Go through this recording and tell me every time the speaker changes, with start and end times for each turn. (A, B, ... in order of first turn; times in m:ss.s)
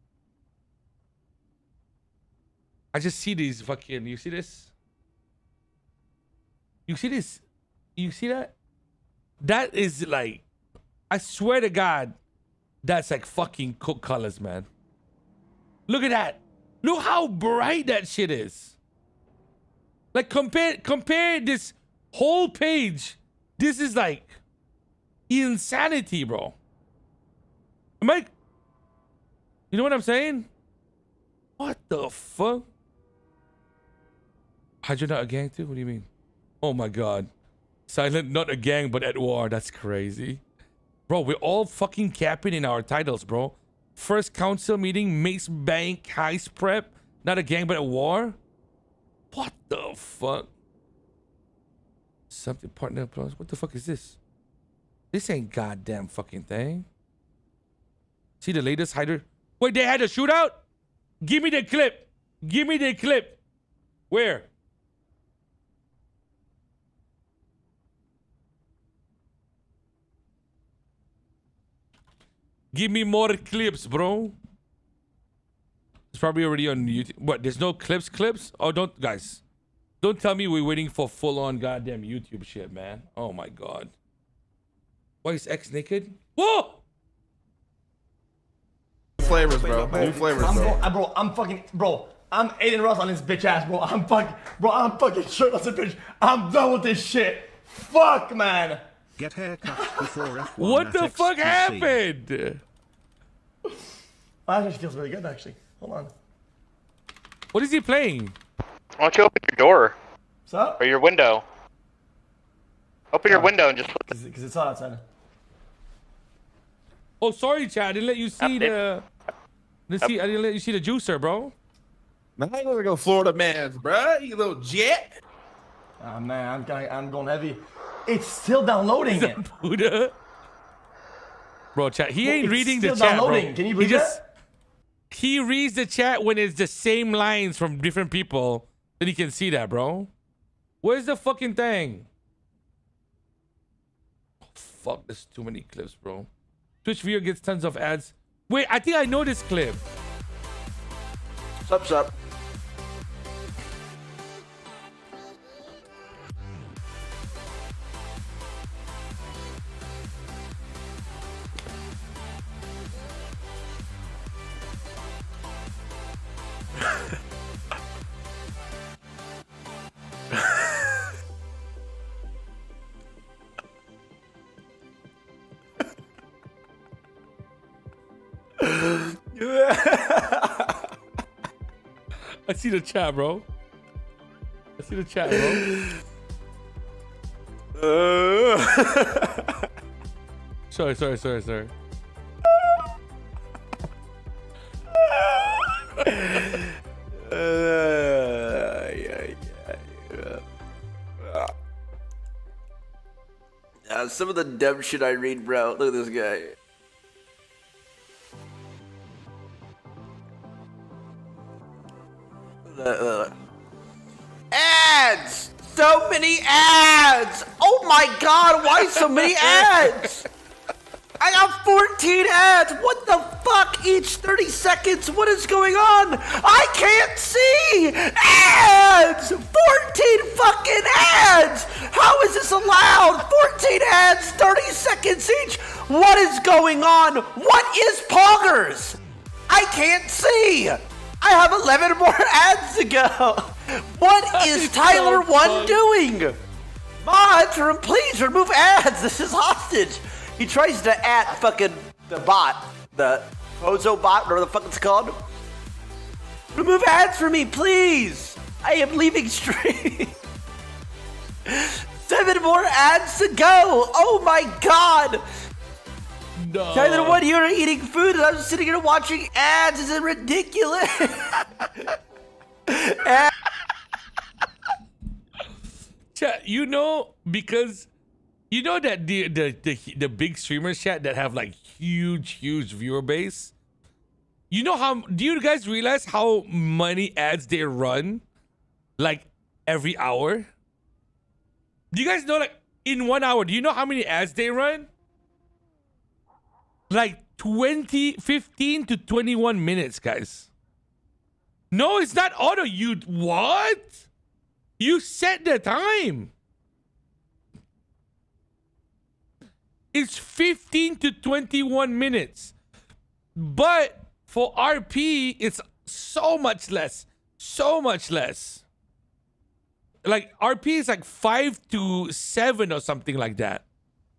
0:02.9-0:04.7 A
0:06.9-0:07.4 A
0:08.0-0:08.5 A
0:09.4-0:10.4 A
0:11.1-0:12.2 A
0:12.8-0:14.7 A
0:15.9-0:18.8 A
0:20.1-0:24.4 A
0:25.3-0:26.6 A
0:28.0-0:28.3 A
0:29.7-0:30.5 A
0:31.6-0:32.7 A
0:34.8-0:36.1 A
0:36.6-0:37.3 A
0:37.9-0:40.4 A
0:41.1-0:48.4 A
0:49.3-0:50.5 A
0:52.3-0:54.2 A
0:55.1-0:56.9 A
0:58.4-1:00.6 A
1:01.2-1:03.4 A
1:04.1-1:04.5 A
1:12.7-1:14.4 A
1:16.1-1:19.4 A
1:20.0-1:23.9 A
1:25.2-1:26.8 A
1:29.2-1:30.8 B
1:29.2-1:38.8 C
1:39.2-1:41.9 D
1:39.7-1:39.9 C
1:40.6-1:42.6 A
1:44.4-1:46.1 C
1:47.5-1:48.3 A
1:49.0-1:49.9 E
1:50.5-1:50.8 C
1:50.8-1:51.4 E
1:53.1-1:54.0 E
1:53.3-1:55.0 C
1:57.2-1:59.0 A
1:58.4-1:58.7 E
1:59.9-2:01.5 A
2:02.4-2:05.2 B
2:06.0-2:09.4 C
2:09.0-2:10.1 A
2:11.7-2:14.2 A
2:12.2-2:14.2 C
2:15.1-2:20.1 A
2:20.8-2:22.1 A
2:24.5-2:26.3 A
2:26.8-2:29.8 A
2:31.6-2:32.1 F
2:58.6-3:00.7 F
3:02.5-3:03.4 A
3:04.8-3:05.7 A
3:05.3-3:05.9 F
3:07.8-3:09.4 F
3:10.7-3:11.7 A
3:14.9-3:20.4 F
3:21.2-3:21.5 F
3:23.8-3:26.5 F
3:32.6-3:33.3 F
3:34.5-3:40.2 F
3:41.2-3:59.0 F
3:59.5-4:06.4 F
4:04.3-4:05.8 A
4:07.0-4:15.2 F
4:16.5-4:20.1 F
4:21.4-4:25.2 F
4:26.4-4:27.2 A
4:26.7-4:31.4 F
4:32.7-4:33.3 F
4:36.1-4:37.9 A
4:38.5-4:43.5 A
4:44.5-4:48.2 A
4:49.0-4:50.5 A
4:51.9-4:54.9 A
4:56.9-5:00.5 A
5:01.7-5:04.0 A
5:04.8-5:06.3 A
5:09.9-5:12.5 A
5:13.4-5:18.6 A
5:20.0-5:23.6 A